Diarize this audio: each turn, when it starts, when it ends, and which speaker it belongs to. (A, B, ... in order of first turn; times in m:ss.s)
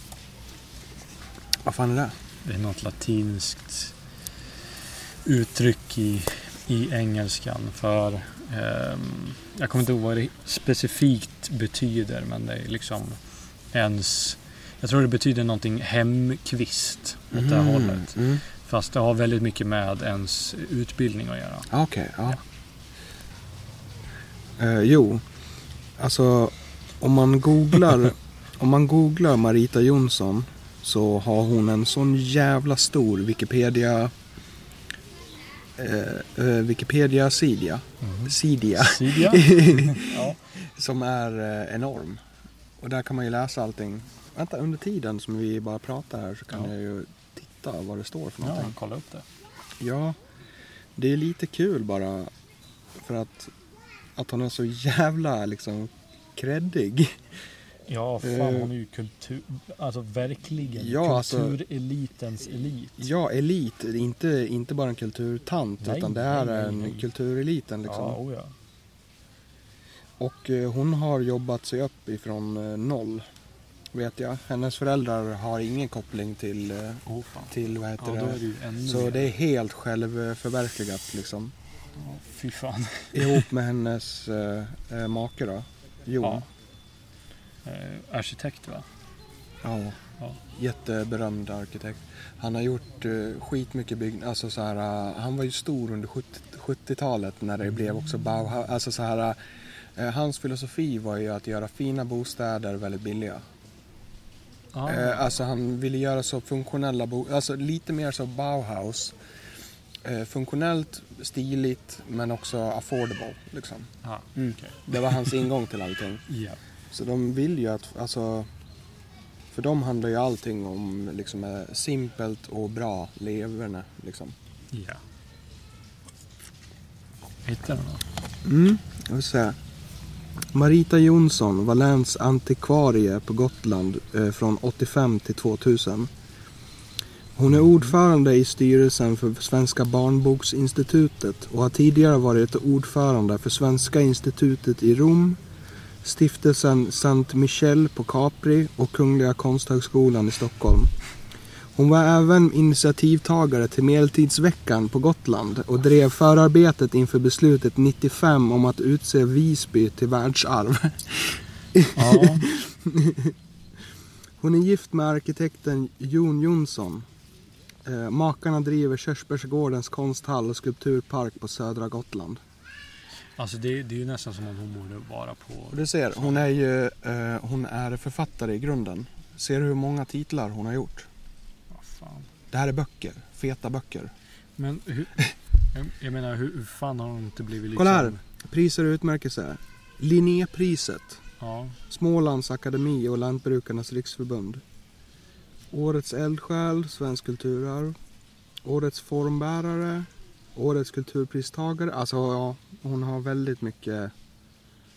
0:01.6-0:02.1 A
0:02.4-0:03.9 B
0:05.2-0:13.2 B
0:13.7-0:21.7 B
0:17.3-0:18.4 A
0:21.7-0:22.4 A
0:24.6-0:25.2 A
0:26.0-0:34.1 A
0:35.8-0:42.2 A
0:38.0-0:40.4 B
0:42.8-0:48.7 A
0:48.4-0:49.3 B
0:49.8-0:50.2 A
0:51.0-0:52.3 A
0:53.0-0:53.5 A
0:54.2-0:57.2 A
0:57.9-1:03.1 B
0:58.2-0:58.7 A
1:00.8-1:01.6 A
1:03.0-1:08.2 A
1:05.8-1:07.1 B
1:07.9-1:08.5 B
1:10.2-1:13.2 A
1:13.9-1:21.5 A
1:17.1-1:19.3 B
1:22.0-1:23.5 B
1:23.1-1:26.4 A
1:27.6-1:28.9 B
1:29.6-1:30.0 A
1:30.5-1:39.4 A
1:40.0-1:43.4 A
1:44.7-1:45.3 B
1:44.8-1:49.1 A
1:50.0-1:56.2 A
1:54.0-1:55.4 B
1:56.3-1:56.6 B
1:56.9-1:58.5 A
1:59.5-2:04.3 A
2:04.7-2:05.0 B
2:07.4-2:08.0 B
2:08.4-2:09.6 A
2:10.5-2:16.1 A
2:17.4-2:25.4 A
2:26.0-2:30.9 A
2:31.8-2:43.3 A
2:42.0-2:42.5 B
2:44.4-2:47.1 A
2:47.8-2:52.4 A
2:53.4-2:56.4 B
2:55.7-3:01.1 A
3:01.7-3:02.3 B
3:02.5-3:04.1 A
3:04.6-3:08.2 B
3:07.8-3:11.2 A
3:11.4-3:11.8 B
3:11.9-3:14.6 A
3:15.7-3:18.0 A
3:18.6-3:24.1 A